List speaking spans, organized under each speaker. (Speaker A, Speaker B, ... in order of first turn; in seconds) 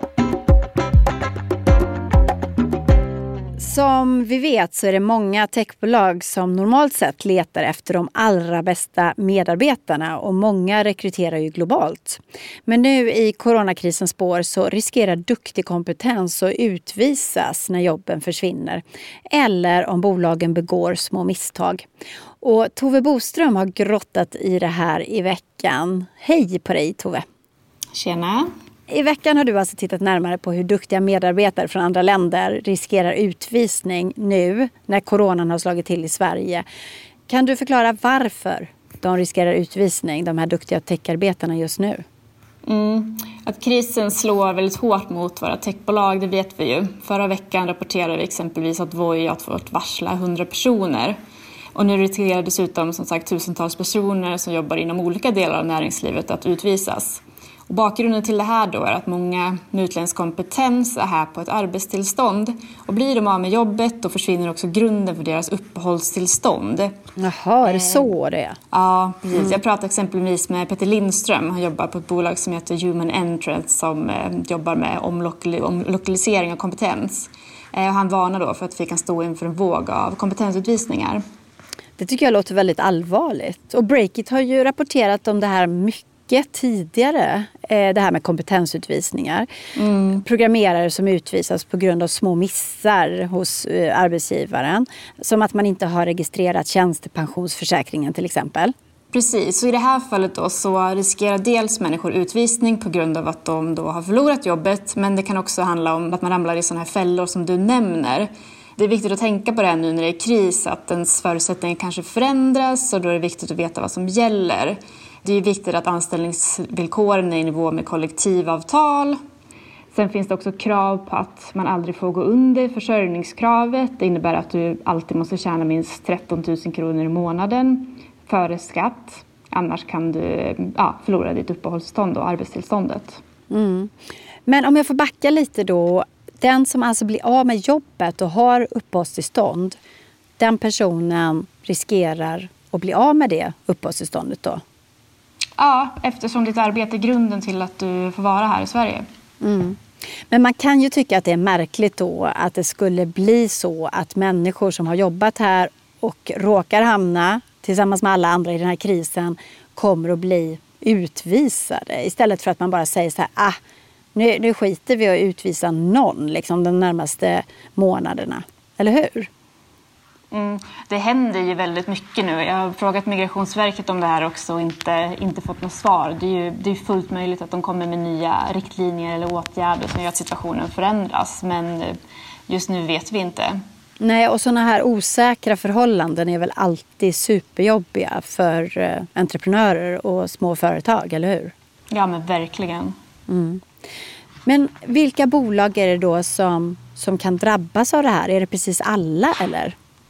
Speaker A: 3.6-21.9, 22.4-27.2, 28.9-36.6, 37.3-42.0, 67.2-68.6, 69.3-69.6, 82.0-89.5, 90.1-98.7, 133.5-133.9, 134.5-139.8, 140.4-144.6, 149.4-149.8, 150.3-163.6, 164.1-169.3, 184.0-191.5, 193.3-193.6, 194.4-199.7
Speaker B: 27.9-28.4, 42.6-51.1, 51.7-66.9, 67.6-68.1, 68.7-81.2, 89.8-90.2, 99.1-119.2, 119.9-133.2, 145.6-149.0, 170.3-181.9, 182.5-183.6, 191.9-192.9